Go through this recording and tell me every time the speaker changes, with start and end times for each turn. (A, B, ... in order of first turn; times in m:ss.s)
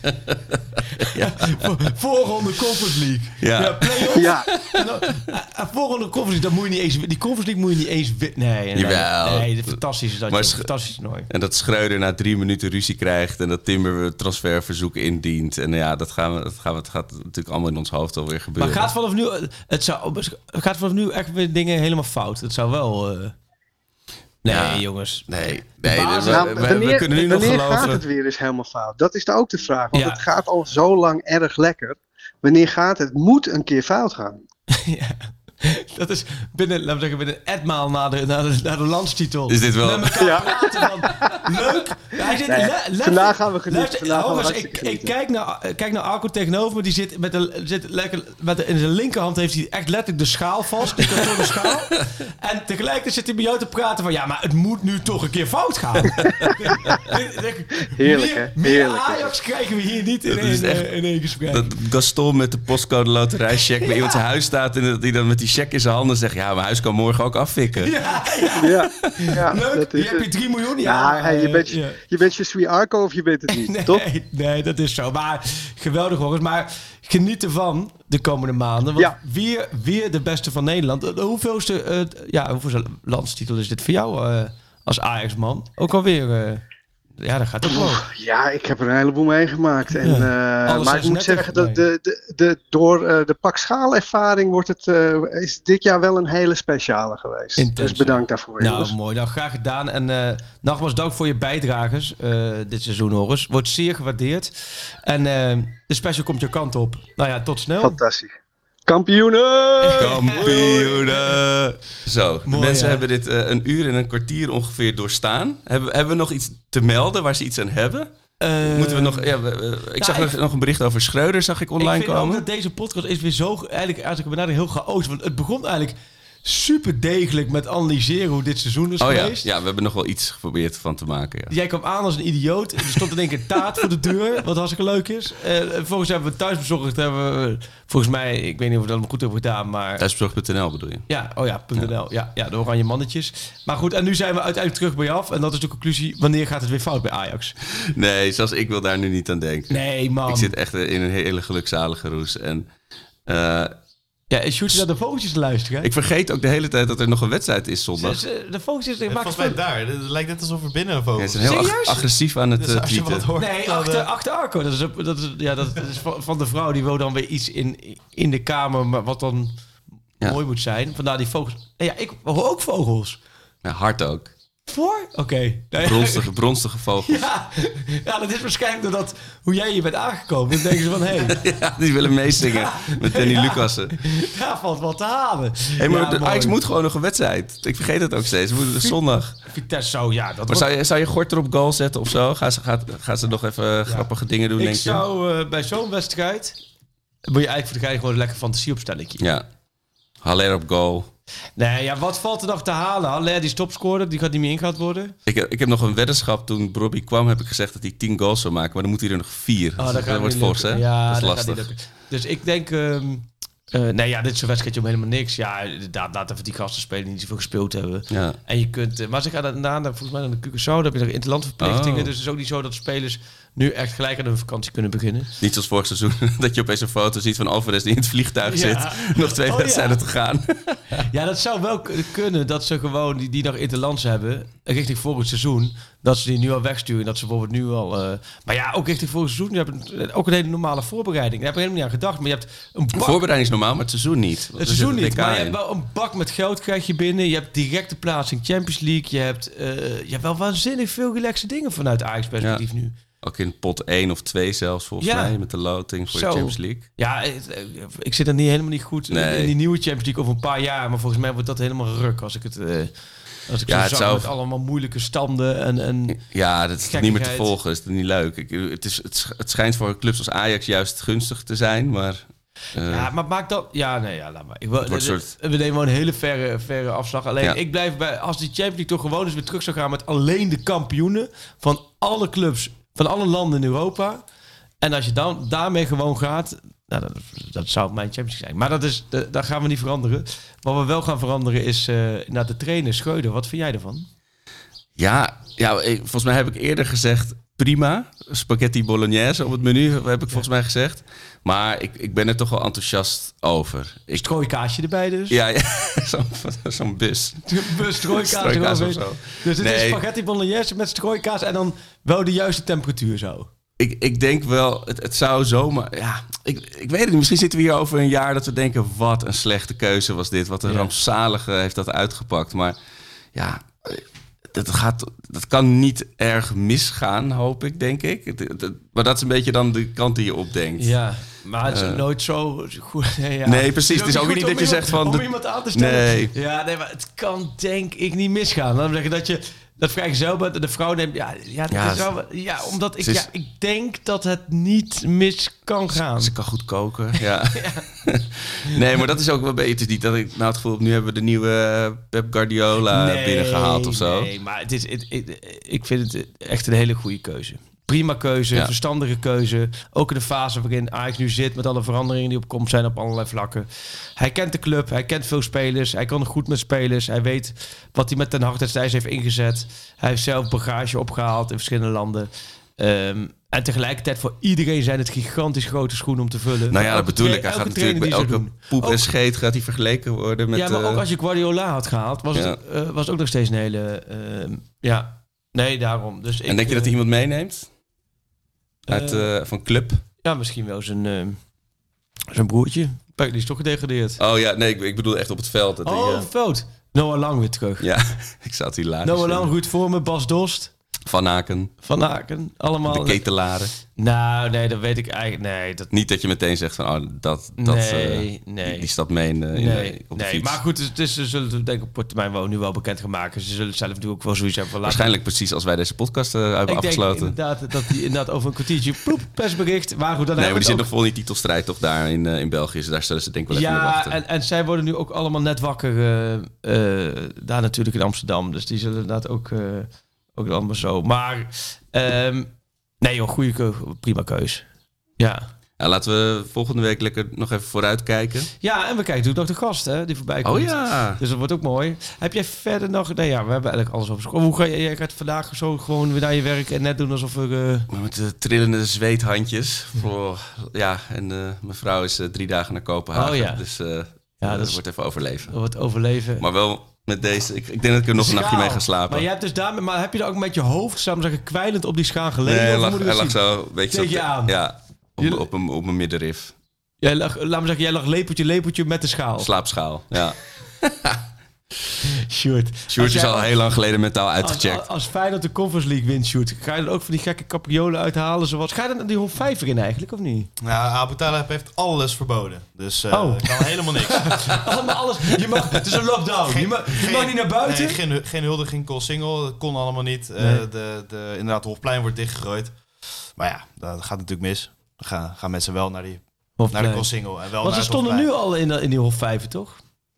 0:00.2-0:01.7 A
0:01.2-0:11.3 B
0:03.4-0:04.8 A
0:04.2-0:04.5 C
0:08.7-0:10.7 A
0:11.3-0:18.9 A
0:18.6-0:23.3 B
0:24.4-0:26.8 B
0:24.5-0:28.0 A
0:26.2-0:34.4 C
0:29.9-0:30.2 B
0:34.7-1:01.7 B
0:39.5-0:40.5 A
0:40.2-0:40.5 C
0:42.3-0:45.1 C
0:56.2-0:57.0 A
0:58.0-0:59.3 C
1:00.3-1:00.9 A
1:01.5-1:07.9 A
1:07.8-1:12.0 B
1:08.6-1:10.3 C
1:10.8-1:14.0 C
1:13.5-1:26.6 B
1:27.2-1:28.0 B
1:27.6-1:38.9 C
1:30.0-1:31.8 B
1:37.6-1:48.0 B
1:47.8-1:48.3 C
1:48.9-1:51.0 C
1:49.8-1:51.2 B
1:50.0-1:58.1 A
1:52.4-1:53.0 B
1:58.4-1:59.3 B
1:58.6-2:02.4 A
2:00.0-2:00.4 B
2:01.8-2:09.4 B
2:09.0-2:11.5 A
2:11.5-2:20.0 B
2:20.0-2:21.1 A
2:21.1-2:27.5 B
2:27.9-2:32.7 A
2:29.7-2:30.5 B
2:33.2-2:33.8 A
2:34.3-2:35.9 B
2:35.8-2:38.2 A
2:38.0-2:39.6 B
2:39.1-2:41.7 D
2:41.2-2:43.3 A
2:41.4-2:42.0 B
2:42.6-2:44.1 D
2:43.4-2:49.5 B
2:50.2-2:53.2 B
2:53.6-2:54.3 A
2:54.7-2:56.3 B
2:55.8-2:57.2 A
2:57.0-3:01.4 B
3:00.9-3:04.0 A
3:02.4-3:06.5 B
3:05.8-3:09.4 A
3:08.7-3:10.7 B
3:10.5-3:15.0 A
3:13.9-3:16.6 B
3:17.3-3:19.2 B
3:19.2-3:19.4 A
3:20.2-3:21.1 A
3:21.6-3:25.1 B
3:25.2-3:31.7 A
3:29.8-3:45.3 B
3:38.1-3:38.4 A
3:41.6-3:42.1 A
3:45.4-3:50.9 A
3:48.4-3:50.0 B
3:51.1-4:03.2 B
4:02.9-4:05.6 A
4:04.6-4:12.9 B
4:13.2-4:16.8 A
4:15.0-4:15.4 B
4:16.1-4:22.9 B
4:19.1-4:19.5 A
4:23.5-4:26.2 B
4:23.7-4:24.3 A
4:26.1-4:33.1 A
4:26.8-4:27.5 B
4:32.9-4:44.2 B
4:34.8-4:35.3 A
4:44.8-4:54.1 B
4:55.0-5:04.3 A
5:04.1-5:05.4 B
5:05.3-5:10.0 A
5:07.5-5:13.5 B
5:13.8-5:22.8 A
5:20.6-5:20.9 B
5:23.3-5:30.9 A
5:30.8-5:46.3 B
5:31.7-5:32.0 A
5:33.4-5:36.3 A
5:41.7-5:43.3 A
5:45.9-5:54.3 A
5:47.5-5:47.8 B
5:52.9-6:19.1 B
6:16.7-6:21.0 A
6:20.5-6:26.9 B
6:22.3-6:22.6 A
6:26.5-6:27.7 A
6:28.9-6:29.3 B
6:28.9-6:30.0 A
6:30.2-6:31.4 B
6:32.3-6:34.2 B
6:34.2-6:36.3 A
6:35.8-6:37.9 B
6:37.8-6:39.5 A
6:39.0-6:40.7 B
6:41.0-6:41.7 A
6:41.8-6:43.2 B
6:42.9-6:43.7 A
6:44.0-6:45.9 B
6:45.9-6:50.6 A
6:47.6-6:48.9 B
6:49.5-6:55.1 B
6:54.8-6:57.3 A
6:56.7-7:00.9 B
7:00.4-7:04.2 A
7:03.5-7:12.5 B
7:13.0-7:14.6 B
7:15.2-7:15.5 B
7:15.8-7:18.5 A
7:18.6-7:27.9 B
7:20.4-7:21.2 A
7:27.9-7:35.6 A
7:33.1-7:33.6 B
7:34.4-7:34.8 B
7:35.5-7:36.4 B
7:36.4-7:39.2 A
7:38.2-7:44.5 B
7:42.4-7:46.5 A
7:45.2-7:45.4 B
7:47.0-7:49.5 B
7:49.4-7:51.2 A
7:52.3-7:53.5 B
7:52.9-7:54.8 A
7:54.4-8:00.5 B
8:00.6-8:04.6 D
8:03.1-8:08.0 B
8:06.5-8:18.3 D
8:10.4-8:10.6 B
8:16.6-8:19.8 B